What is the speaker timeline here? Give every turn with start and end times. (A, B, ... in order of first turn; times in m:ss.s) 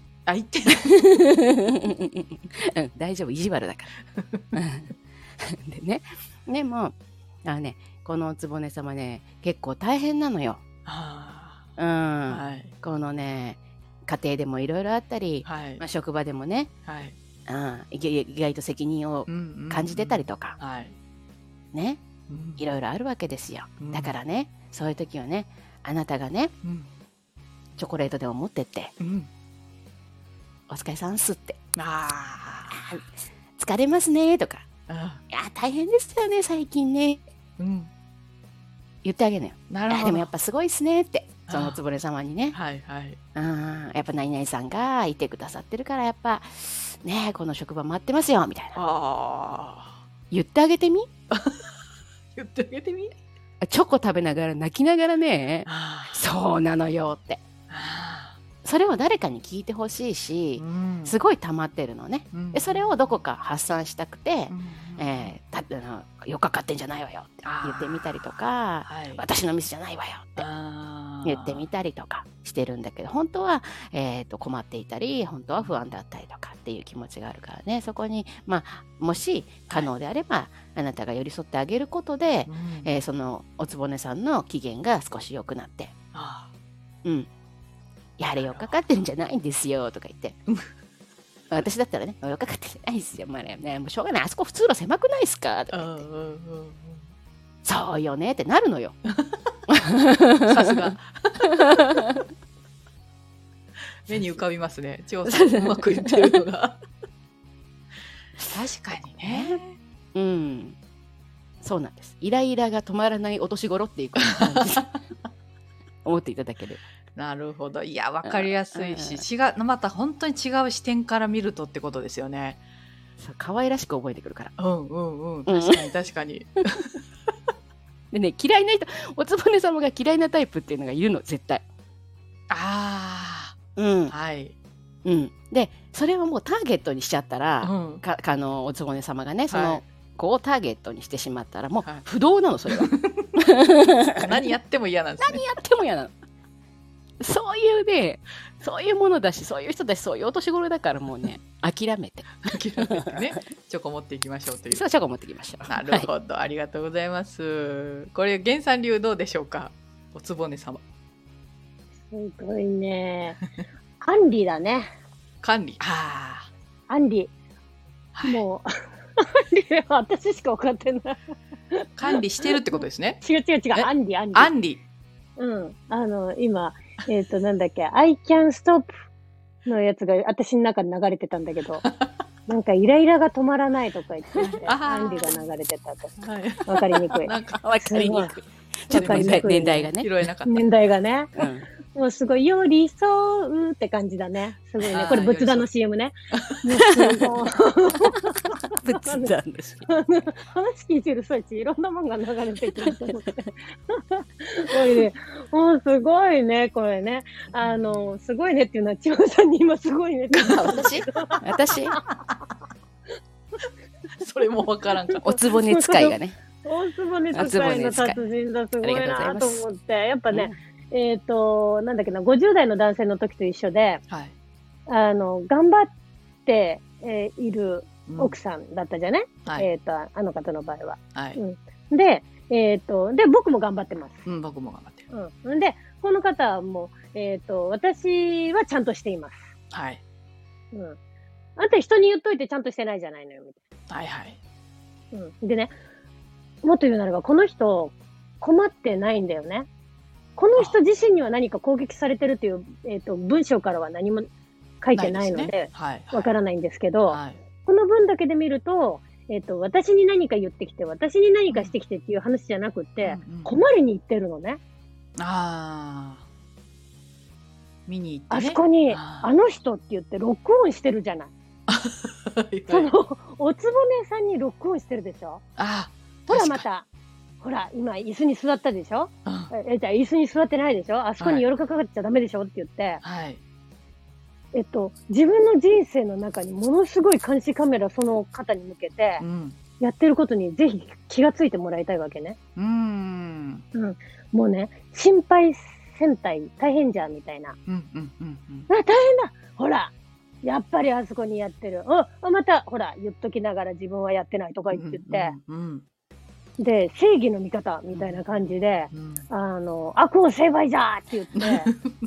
0:00.2-0:00.9 A
0:00.9-0:03.9 B
0:04.1-0:04.4 A
0:04.5-0:10.6 B
0:10.8-0:11.6 A
0:11.8-0:16.7 B
0:12.3-0:12.7 A
0:15.4-0:15.8 A
0:16.8-0:17.1 A
0:17.5-0:20.6 B
0:19.3-0:20.9 A
0:21.7-0:22.0 B
0:22.3-0:22.6 A
0:22.6-0:26.5 B
0:23.8-0:24.2 A
0:26.6-0:26.9 A
0:27.8-0:28.9 B
0:29.0-0:29.3 A
0:30.7-0:31.6 B
0:31.8-0:33.0 A
0:32.8-0:33.0 B
0:33.6-0:34.6 B
0:34.9-0:35.2 A
0:35.3-0:37.2 B
0:37.6-0:37.9 A
0:39.0-0:42.6 B
0:39.7-0:40.3 A
0:41.5-0:41.8 A
0:42.5-0:43.2 A
0:43.3-0:48.8 B
0:48.8-0:50.0 A
0:50.3-0:51.1 B
0:51.3-0:51.6 A
0:52.3-0:53.1 A
0:53.6-0:57.4 B
0:55.6-0:56.2 A
0:57.7-0:58.4 A
0:58.6-1:10.4 B
1:00.6-1:01.2 A
1:02.3-1:03.2 A
1:04.5-1:05.3 A
1:07.4-1:08.0 A
1:08.8-1:09.2 A
1:10.4-1:11.6 A
1:11.2-1:25.9 B
1:22.4-1:22.9 A
1:26.1-1:26.5 A
1:28.2-1:30.4 B
1:28.4-1:29.0 A
1:31.5-1:36.0 B
1:35.7-1:37.0 A
1:37.6-1:39.0 B
1:39.1-1:39.4 A
1:39.7-1:40.9 B
1:40.4-1:42.0 A
1:44.0-1:46.8 A
1:45.2-1:46.4 B
1:48.5-1:49.8 A
1:49.2-1:49.6 B
1:50.1-1:50.8 B
1:51.6-1:54.8 B
1:56.0-1:56.8 B
1:57.2-2:02.6 A
1:58.2-1:59.2 B
2:03.2-2:04.5 B
2:04.6-2:07.0 A
2:05.5-2:05.9 B
2:08.1-2:11.6 B
2:12.5-2:13.5 A
2:13.8-2:14.1 B
2:14.1-2:14.5 A
2:15.0-2:24.4 B
2:17.6-2:18.0 A
2:19.5-2:19.8 A
2:22.7-2:23.4 A
2:24.1-2:25.4 A
2:25.2-2:26.1 B
2:27.2-2:32.4 B
2:32.4-2:34.8 A
2:34.7-2:36.1 B
2:35.7-2:40.8 A
2:42.1-2:43.4 C
2:44.0-2:44.9 C
2:45.4-2:46.5 A
2:46.9-2:47.3 C
2:48.1-2:48.4 A
2:48.2-2:51.9 C
2:52.0-2:53.2 A
2:53.2-2:54.5 C
2:53.7-2:54.8 A
2:55.4-2:58.9 C
2:59.6-3:01.8 C
3:02.5-3:06.1 C
3:04.4-3:05.4 A
3:06.2-3:07.6 A
3:06.6-3:08.4 C
3:07.6-3:10.1 B
3:08.9-3:09.9 C
3:08.9-3:10.6 A
3:10.4-3:11.3 C
3:11.4-3:11.7 B
3:11.9-3:19.3 C
3:14.8-3:15.7 A
3:14.9-3:15.3 B
3:16.4-3:16.6 A
3:16.8-3:17.2 B
3:18.8-3:19.9 B
3:19.8-3:31.4 C
3:27.6-3:28.1 A
3:30.4-3:32.0 B
3:34.2-3:35.3 A
3:35.1-3:44.0 C
3:35.2-3:36.4 B
3:37.3-3:38.2 B
3:38.8-3:39.6 B
3:40.3-3:40.6 B
3:44.1-3:44.3 A
3:44.9-3:45.9 C
3:46.4-3:54.2 C
3:48.1-3:48.4 A
3:51.1-3:51.4 A
3:54.2-3:55.1 A
3:55.1-3:59.5 C
3:59.7-4:00.0 A
4:00.7-4:01.0 C
4:01.6-4:03.6 C
4:03.9-4:04.4 A
4:05.1-4:05.7 C
4:06.6-4:09.7 C
4:10.4-4:14.2 C
4:14.8-4:24.6 C
4:14.9-4:16.3 A
4:17.1-4:17.4 A
4:23.0-4:23.6 A
4:25.2-4:26.2 A
4:27.9-4:29.3 A
4:28.3-4:31.3 C
4:31.7-4:32.9 A
4:32.7-4:35.4 C
4:35.6-4:36.6 A
4:36.3-4:36.9 C
4:37.4-4:43.0 C
4:39.2-4:39.5 A
4:41.2-4:41.4 A
4:43.0-4:43.4 A
4:44.5-4:49.2 C
4:49.2-4:49.6 A
4:49.8-4:52.4 C
4:52.6-4:53.6 A
4:53.7-4:57.6 C
4:57.7-4:58.7 A
4:58.7-5:05.3 C
5:04.7-5:05.8 A
5:06.6-5:11.7 C
5:07.9-5:09.2 A
5:11.4-5:11.8 A